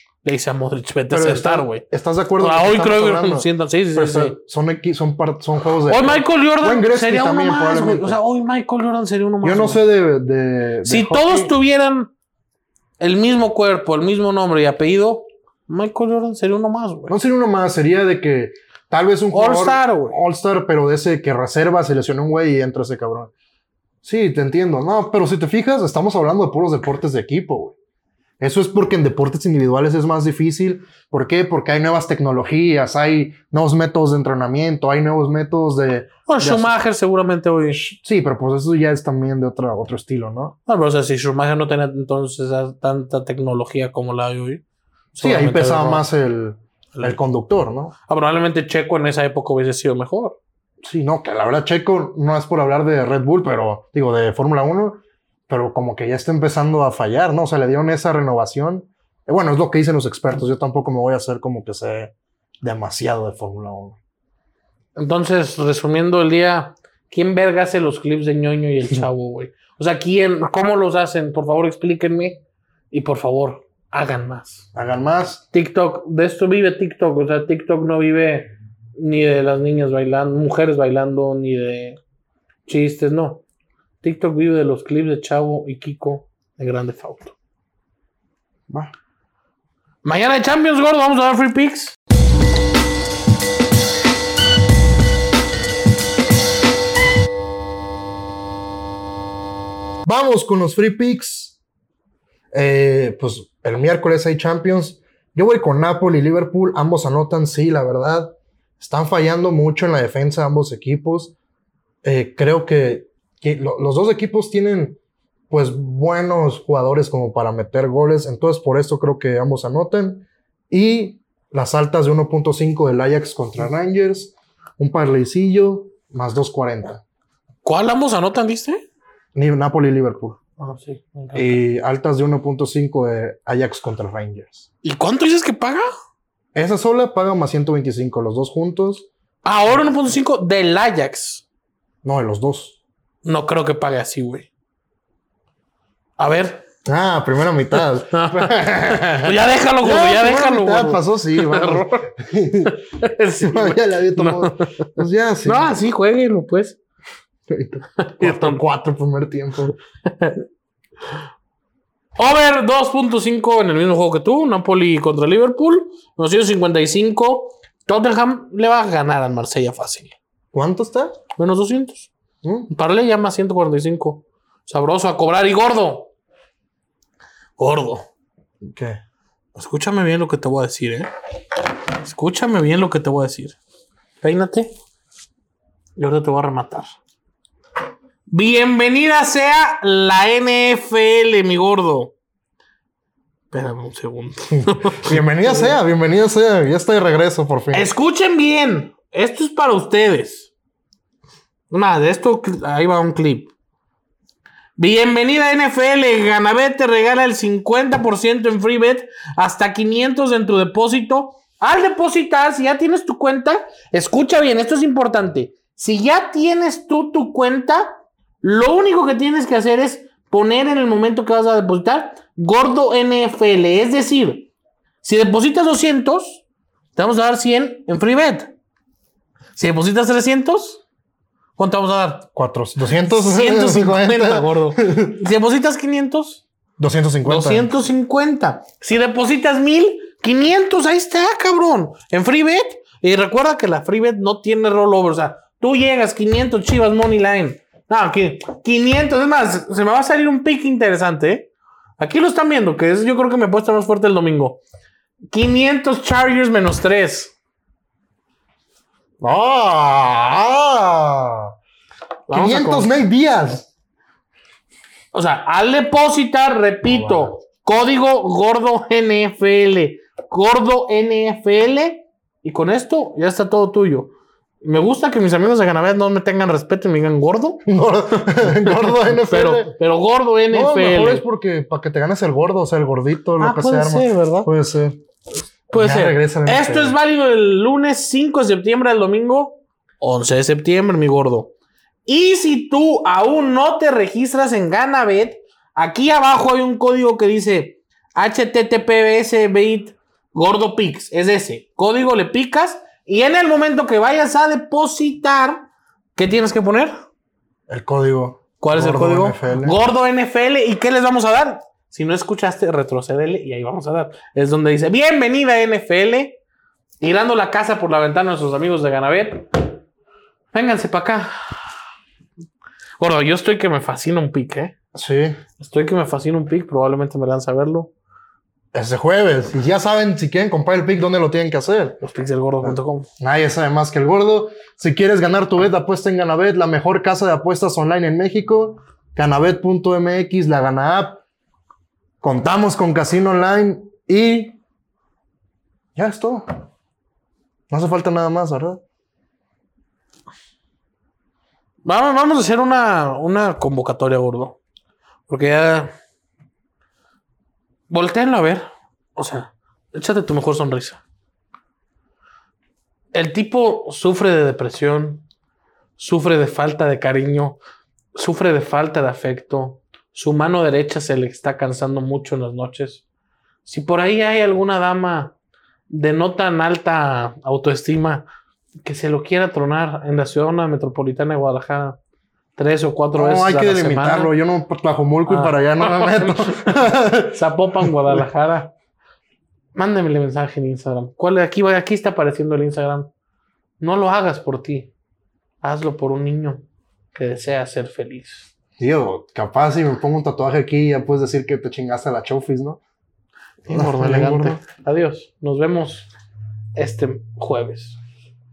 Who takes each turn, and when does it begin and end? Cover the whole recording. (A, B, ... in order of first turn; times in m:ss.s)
0:00.2-0:01.8 A
0:01.1-0:08.2 B
0:02.4-0:04.4 A
0:05.9-0:09.8 A
0:09.4-0:11.5 B
0:10.8-0:12.1 A
0:13.0-0:17.1 A
0:17.1-0:23.3 B
0:19.3-0:20.2 A
0:24.0-0:27.8 B
0:28.4-0:36.7 B
0:36.3-0:37.8 A
0:37.7-0:40.6 B
0:40.7-0:44.6 A
0:45.1-0:46.0 A
0:45.2-0:47.9 B
0:48.1-0:50.4 A
0:50.8-1:04.0 B
1:05.0-1:14.7 A
1:14.7-1:15.4 B
1:15.5-1:22.0 A
1:22.7-1:23.4 A
1:24.0-1:27.4 A
1:30.0-1:32.0 A
1:40.1-1:41.6 B
1:42.5-1:51.3 B
1:52.0-1:55.0 B
1:55.5-2:07.0 B
2:07.6-2:08.9 A
2:09.4-2:10.4 B
2:10.6-2:11.6 A
2:11.3-2:14.7 B
2:14.8-2:15.9 A
2:16.5-2:19.1 B
2:19.4-2:21.4 A
2:22.0-2:22.8 B
2:23.2-2:24.5 A
2:26.2-2:26.6 A
2:26.8-2:32.8 B
2:28.1-2:32.1 A
2:32.6-2:36.8 A
2:33.4-2:35.7 B
2:37.5-2:39.7 B
2:38.0-2:38.6 A
2:40.0-2:40.4 A
2:42.2-2:50.2 A
2:50.5-2:51.2 B
2:51.4-2:52.1 A
2:52.4-2:52.7 B
2:52.7-2:56.1 A
2:57.6-2:58.0 A
2:58.6-2:59.0 B
2:59.6-3:01.1 A
3:02.0-3:03.6 A
3:04.2-3:04.7 A
3:06.0-3:07.0 A
3:08.3-3:12.1 A
3:13.5-3:15.8 A
3:14.5-3:17.9 B
3:17.7-3:20.5 A
3:21.7-3:23.5 A
3:24.8-3:44.5 A
3:45.0-3:46.4 A
3:47.0-3:48.5 A
3:49.6-3:50.8 A
3:51.6-3:52.3 A
3:52.4-3:55.2 B
3:53.1-3:56.4 A
3:56.8-3:57.7 B
3:57.2-4:14.6 A
4:15.3-4:17.4 A
4:19.2-4:21.5 B
4:22.3-4:23.0 A
4:22.3-4:23.7 B
4:25.1-4:34.1 A
4:26.9-4:27.3 B
4:34.6-4:41.2 A
4:37.6-4:39.8 B
4:40.5-4:45.0 B
4:43.4-4:44.5 A
4:45.7-4:47.0 B
4:45.7-4:51.5 A
4:52.1-5:06.9 A
5:07.7-5:09.8 B
5:08.6-5:16.4 A
5:17.0-5:19.5 A
5:20.5-5:21.3 A
5:23.0-5:24.7 A
5:24.9-5:25.4 B
5:25.6-5:27.9 A
5:28.7-5:32.0 B
5:32.0-5:33.1 A
5:32.6-5:41.2 B
5:42.2-5:44.6 B
5:46.0-5:46.5 B
5:47.7-5:48.8 B
5:51.8-5:54.6 A
5:55.3-5:55.9 A
5:57.9-6:01.0 A
6:03.1-6:05.2 A
6:06.0-6:07.6 A
6:08.2-6:13.0 A
6:13.7-6:15.4 A
6:15.9-6:18.3 A
6:18.8-6:22.0 A
6:22.6-6:24.3 A
6:23.2-6:28.2 B
6:25.3-6:28.7 A
6:29.8-6:33.1 A
6:33.8-6:34.9 A
6:35.6-6:38.5 A
6:38.8-6:42.8 B
6:43.6-6:46.1 A
6:43.7-6:44.6 B
6:46.8-6:48.0 A